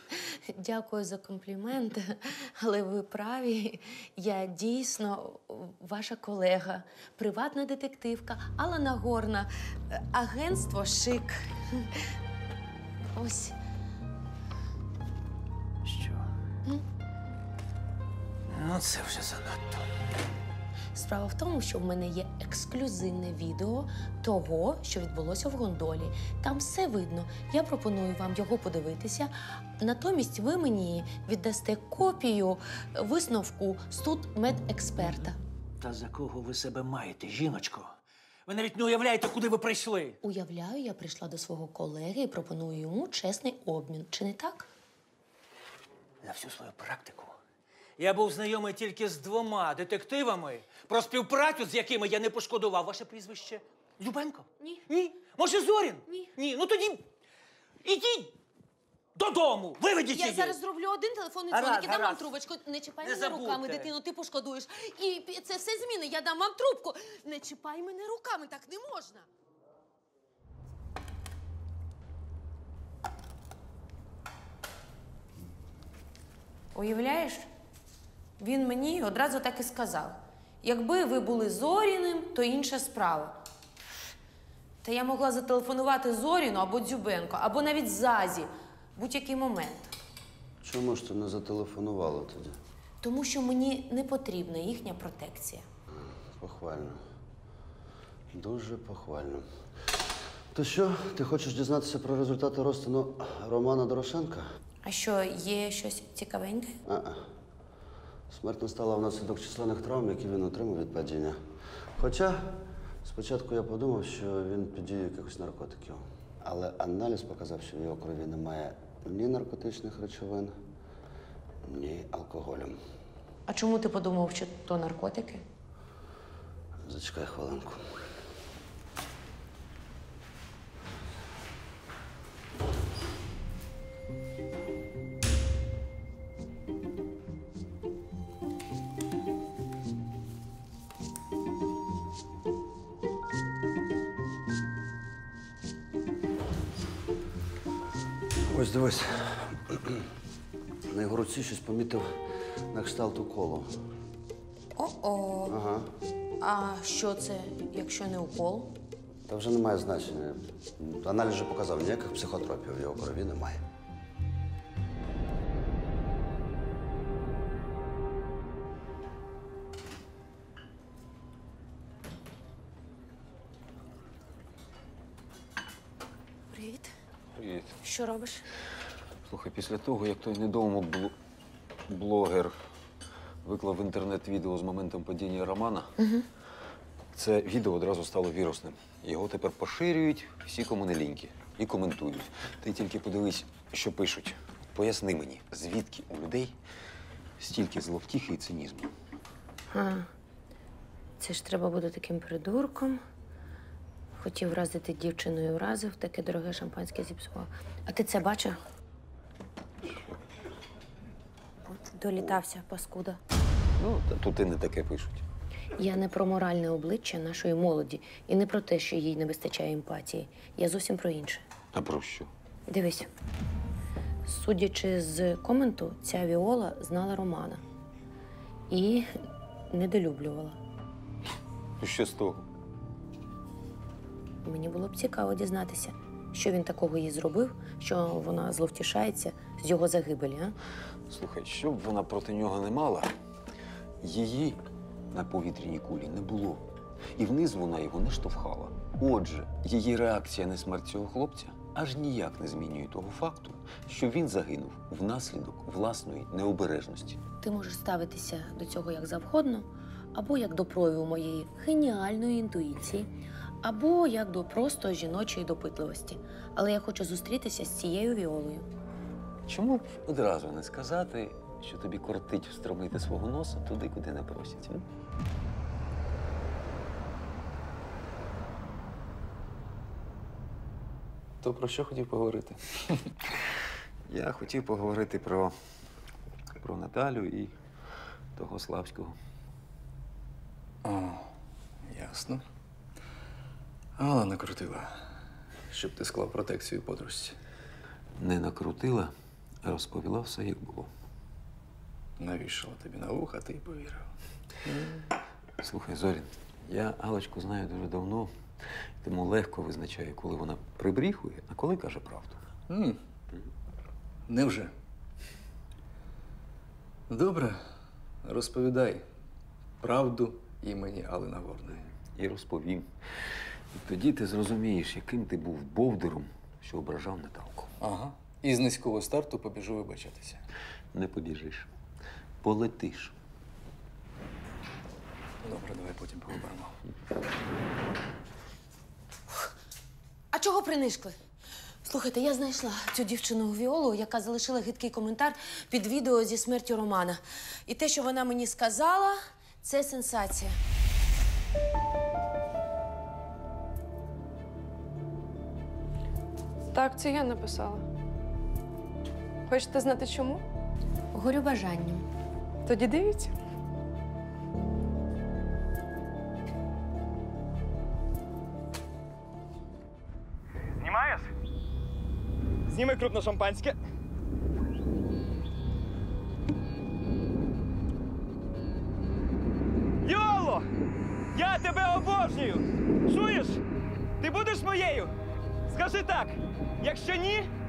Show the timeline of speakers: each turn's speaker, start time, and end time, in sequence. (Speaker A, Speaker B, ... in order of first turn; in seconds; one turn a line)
Speaker A: 0.5-12.0
Speaker A: 13.2-13.6
Speaker B: 15.8-16.2
Speaker B: 18.5-19.9
Speaker A: 20.9-35.4
Speaker B: 35.8-37.9
Speaker B: 38.5-40.2
Speaker A: 40.2-44.7
Speaker B: 46.2-47.4
Speaker B: 48.0-57.0
Speaker B: 57.8-58.4
Speaker B: 59.2-60.6
Speaker A: 60.1-69.3
Speaker B: 61.5-62.3
Speaker B: 63.0-63.9
Speaker A: 76.7-77.5
Speaker A: 78.4-83.4
Speaker A: 84.8-90.0
Speaker C: 90.6-92.6
Speaker A: 93.0-95.7
Speaker C: 95.9-97.0
Speaker C: 98.3-99.5
Speaker C: 100.5-104.5
Speaker A: 104.8-106.8
Speaker C: 106.9-107.2
Speaker C: 108.3-111.4
Speaker C: 112.0-120.6
Speaker C: 121.6-122.8
Speaker A: 123.5-125.4
Speaker C: 126.8-127.8
Speaker C: 148.5-149.9
Speaker C: 150.9-152.2
Speaker C: 152.7-153.7
Speaker A: 154.8-155.5
Speaker C: 155.5-155.9
Speaker A: 156.4-158.7
Speaker C: 159.3-163.6
Speaker A: 176.5-176.9
Speaker D: 177.3-177.7
Speaker A: 177.8-178.4
Speaker D: 179.3-181.1
Speaker D: 181.9-182.6
Speaker D: 183.4-185.9
Speaker A: 186.0-186.3
Speaker D: 187.1-196.6
Speaker D: 197.4-198.9
Speaker A: 199.7-200.1
Speaker A: 201.2-203.0
Speaker A: 204.2-208.6
Speaker A: 211.7-213.2
Speaker D: 213.8-215.2
Speaker A: 215.8-221.4
Speaker D: 221.7-222.3
Speaker A: 222.7-223.1
Speaker A: 224.3-227.6
Speaker A: 228.7-229.1
Speaker A: 229.7-230.6
Speaker D: 231.8-232.5
Speaker A: 234.4-240.6
Speaker D: 241.1-243.1
Speaker D: 244.0-257.2
Speaker A: 257.4-263.1
Speaker A: 263.6-268.7
Speaker D: 269.5-274.8
Speaker E: 281.4-283.0
Speaker D: 284.1-285.5
Speaker D: 286.6-287.6
Speaker D: 288.4-289.2
Speaker E: 290.8-291.3
Speaker E: 291.9-292.4
Speaker E: 294.0-295.0
Speaker E: 295.7-297.4
Speaker D: 298.2-299.1
Speaker D: 299.6-300.9
Speaker E: 302.2-304.1
Speaker E: 304.6-305.0
Speaker D: 305.6-308.3
Speaker D: 309.0-312.4
Speaker E: 312.7-313.0
Speaker E: 314.3-314.7
Speaker E: 317.1-317.6
Speaker E: 318.2-319.1
Speaker E: 319.8-321.9
Speaker D: 322.1-322.9
Speaker D: 323.7-327.8
Speaker E: 327.8-330.4
Speaker D: 330.9-331.7
Speaker D: 332.4-333.1
Speaker E: 335.4-336.8
Speaker A: 340.3-341.2
Speaker A: 341.9-350.6
Speaker F: 356.7-357.8
Speaker F: 359.5-360.4
Speaker A: 361.1-362.1
Speaker F: 362.7-363.4
Speaker G: 370.8-371.3
Speaker G: 372.7-373.8
Speaker G: 380.0-380.6
Speaker G: 381.3-383.6
Speaker G: 384.2-385.1
Speaker G: 385.7-387.5